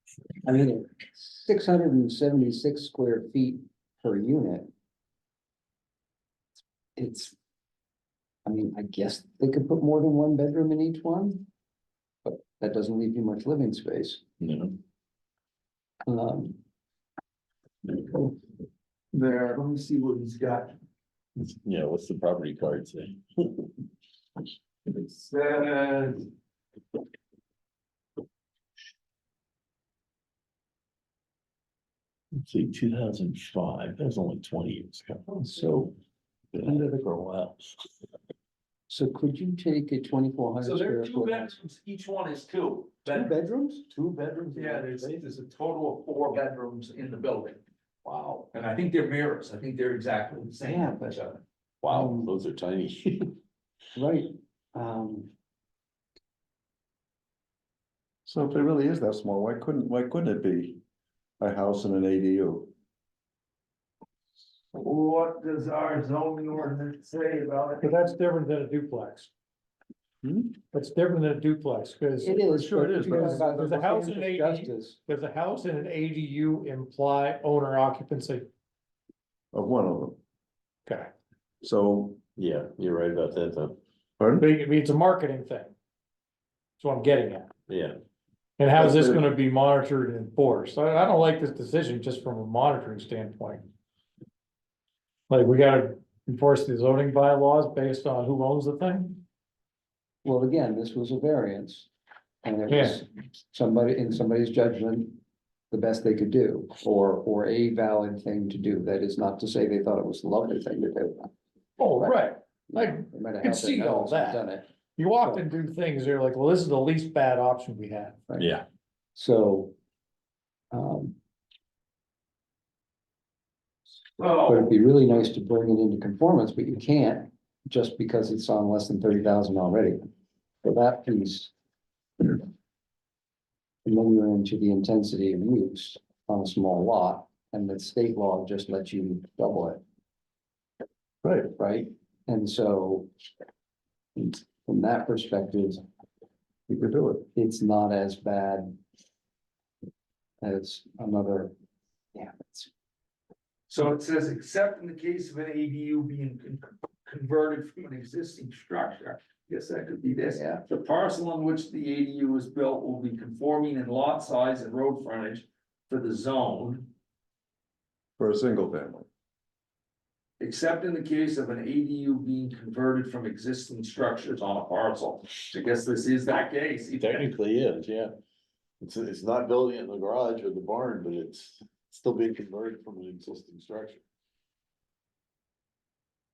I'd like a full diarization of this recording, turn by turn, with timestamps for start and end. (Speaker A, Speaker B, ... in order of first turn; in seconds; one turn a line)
Speaker A: 0.4-4.7
Speaker A: 7.0-7.3
Speaker A: 8.4-11.5
Speaker A: 12.2-14.2
Speaker B: 14.4-14.8
Speaker A: 16.1-16.6
Speaker C: 19.1-20.7
Speaker B: 21.4-23.7
Speaker C: 24.9-26.2
Speaker B: 32.4-35.9
Speaker A: 35.5-35.9
Speaker B: 36.5-37.9
Speaker A: 36.6-37.0
Speaker A: 38.9-41.6
Speaker C: 40.6-43.3
Speaker A: 43.1-43.9
Speaker B: 43.9-45.2
Speaker C: 44.5-47.6
Speaker B: 48.0-48.4
Speaker C: 48.5-51.3
Speaker A: 50.7-51.2
Speaker B: 51.8-53.4
Speaker A: 51.9-52.3
Speaker A: 54.0-55.3
Speaker D: 58.3-60.8
Speaker D: 61.4-62.7
Speaker C: 64.8-68.0
Speaker E: 67.8-69.3
Speaker D: 70.2-70.5
Speaker E: 70.7-78.5
Speaker A: 72.2-75.0
Speaker D: 72.7-73.6
Speaker D: 79.5-80.2
Speaker D: 81.6-82.2
Speaker B: 82.4-83.8
Speaker D: 84.2-84.5
Speaker E: 84.4-85.7
Speaker E: 86.8-87.5
Speaker B: 87.7-88.0
Speaker E: 88.6-93.7
Speaker D: 88.8-89.2
Speaker E: 95.3-99.2
Speaker A: 100.2-101.9
Speaker A: 102.4-105.2
Speaker E: 102.7-103.0
Speaker A: 105.7-111.3
Speaker E: 111.8-114.4
Speaker A: 112.0-114.7
Speaker E: 115.0-118.2
Speaker A: 118.3-118.6
Speaker B: 118.4-118.6
Speaker A: 119.2-119.7
Speaker A: 120.7-121.2
Speaker C: 124.2-124.7
Speaker A: 124.5-130.1
Speaker A: 130.6-131.5
Speaker A: 133.8-139.8
Speaker A: 141.5-143.1
Speaker A: 144.2-145.8
Speaker D: 146.7-147.2
Speaker A: 147.3-148.8
Speaker A: 150.4-151.5
Speaker A: 152.1-152.7
Speaker C: 153.7-166.8
Speaker A: 160.3-160.6
Speaker D: 168.2-169.1
Speaker C: 170.4-177.2
Speaker B: 177.0-178.1
Speaker B: 178.8-184.0